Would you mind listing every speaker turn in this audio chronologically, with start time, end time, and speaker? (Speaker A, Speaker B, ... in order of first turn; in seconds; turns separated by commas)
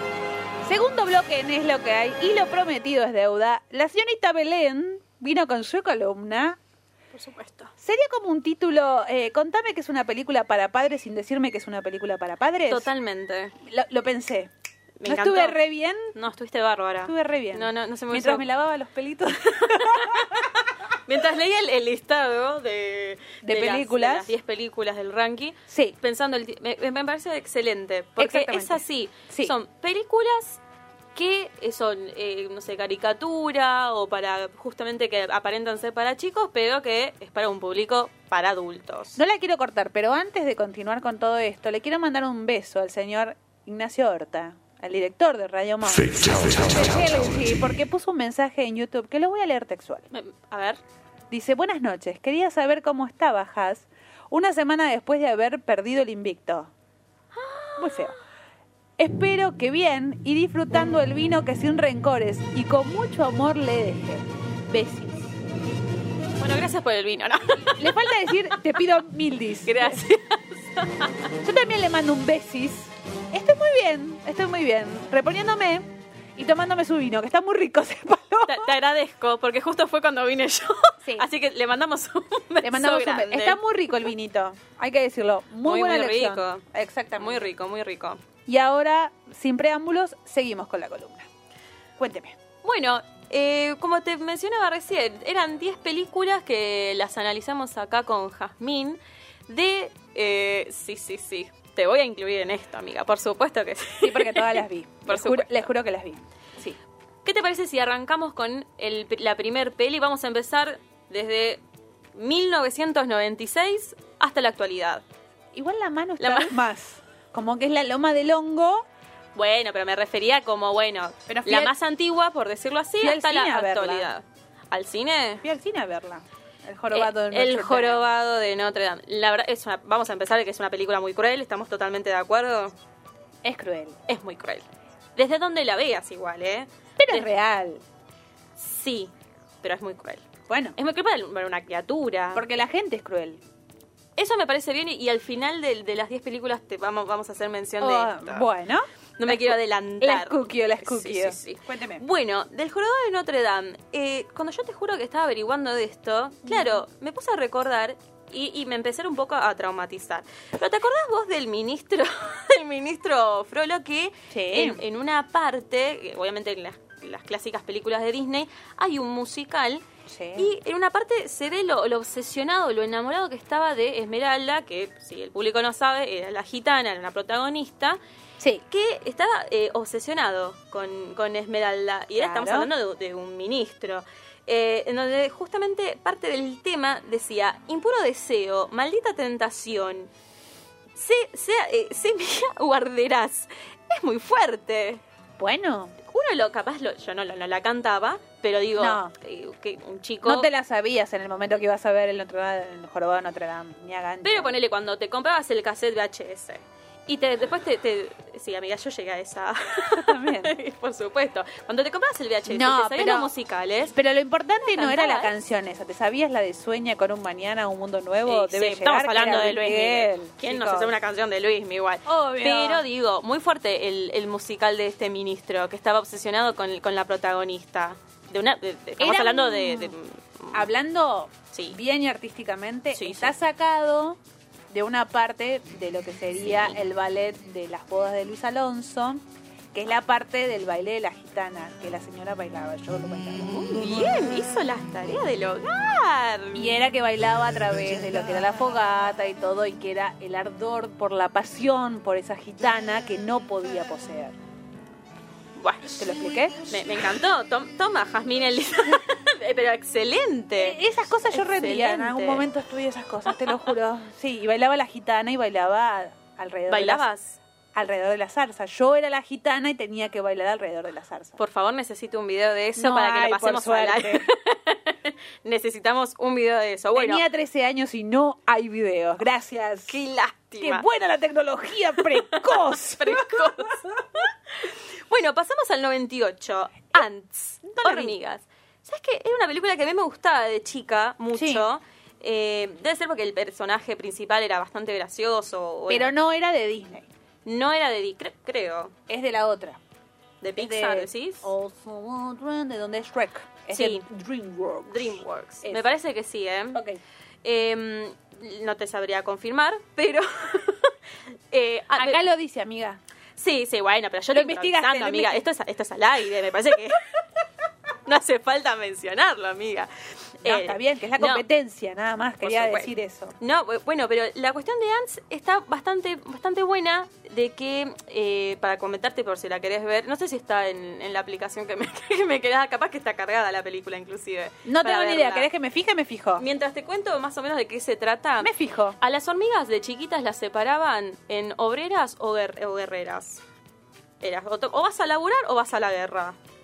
Speaker A: 0.6-6.6, Speaker B: 7.1-7.7, Speaker A: 7.8-12.9, Speaker B: 12.6-13.5, Speaker A: 13.6-14.5, Speaker B: 15.0-15.6, Speaker A: 15.0-16.1, Speaker B: 16.1-18.4, Speaker A: 17.0-20.5, Speaker B: 19.6-30.6, Speaker A: 23.4-24.3, Speaker A: 25.7-25.9, Speaker A: 28.2-29.5, Speaker B: 31.1-39.2, Speaker A: 39.1-50.1, Speaker B: 50.1-50.8, Speaker A: 51.3-56.7, Speaker B: 57.3-58.1, Speaker A: 57.8-58.1, Speaker A: 59.0-65.4, Speaker B: 66.4-68.3, Speaker A: 67.7-70.0, Speaker B: 69.6-71.2, Speaker A: 71.4-78.7, Speaker B: 78.5-83.6, Speaker A: 82.6-87.5, Speaker B: 85.6-86.6, Speaker B: 87.2-88.2, Speaker A: 88.5-91.3, Speaker A: 92.0-92.3, Speaker B: 92.6-105.7, Speaker A: 104.0-106.8, Speaker B: 107.2-111.6, Speaker B: 112.1-115.0, Speaker A: 115.5-118.9, Speaker B: 116.2-116.6, Speaker B: 119.3-125.4, Speaker A: 121.3-121.7, Speaker A: 123.0-124.1, Speaker A: 125.4-128.1, Speaker B: 126.9-132.7, Speaker A: 133.4-134.0, Speaker B: 134.1-134.6, Speaker B: 135.2-137.3, Speaker A: 137.0-137.8, Speaker B: 138.6-142.4, Speaker A: 140.5-140.8, Speaker A: 142.3-143.4, Speaker B: 144.2-148.5, Speaker A: 147.8-152.0, Speaker B: 149.2-169.8, Speaker A: 156.4-156.8, Speaker A: 164.3-164.8, Speaker A: 170.1-170.5, Speaker B: 170.3-178.0, Speaker A: 178.4-178.6, Speaker B: 178.7-190.1, Speaker A: 182.1-182.7, Speaker B: 190.9-195.0, Speaker A: 195.4-195.9, Speaker B: 196.0-200.5, Speaker A: 198.8-199.1, Speaker A: 200.2-204.5, Speaker B: 204.2-213.9, Speaker A: 209.9-210.5, Speaker A: 212.5-213.3, Speaker A: 213.9-220.9, Speaker B: 214.6-215.3, Speaker B: 218.2-230.7, Speaker A: 222.1-222.8, Speaker A: 229.0-229.9, Speaker A: 230.5-234.2, Speaker B: 231.5-231.8, Speaker B: 232.9-233.3, Speaker A: 234.7-243.5, Speaker B: 236.5-236.8, Speaker B: 243.4-246.8, Speaker A: 246.5-254.4, Speaker B: 255.6-256.1, Speaker A: 256.0-256.7, Speaker B: 256.6-262.5, Speaker A: 260.6-267.1, Speaker B: 263.2-263.5, Speaker B: 266.7-267.4, Speaker A: 267.7-271.4, Speaker B: 271.4-277.2, Speaker A: 272.8-274.3, Speaker A: 276.9-279.9, Speaker B: 279.9-280.9, Speaker A: 280.6-283.8, Speaker B: 282.0-296.1, Speaker A: 287.6-288.1, Speaker A: 291.3-291.6, Speaker A: 295.9-297.1, Speaker B: 297.4-298.9, Speaker A: 299.1-299.8, Speaker B: 300.4-301.5, Speaker A: 300.6-305.9, Speaker B: 303.7-304.1, Speaker B: 304.9-306.8, Speaker A: 306.7-307.0, Speaker B: 307.4-310.9, Speaker B: 311.5-312.2, Speaker A: 311.9-313.0, Speaker B: 313.4-317.2, Speaker A: 314.3-315.4, Speaker B: 318.1-321.4, Speaker A: 320.4-323.3, Speaker B: 322.4-335.5, Speaker A: 334.6-336.4, Speaker B: 336.4-343.4, Speaker A: 338.4-339.0, Speaker B: 344.2-346.4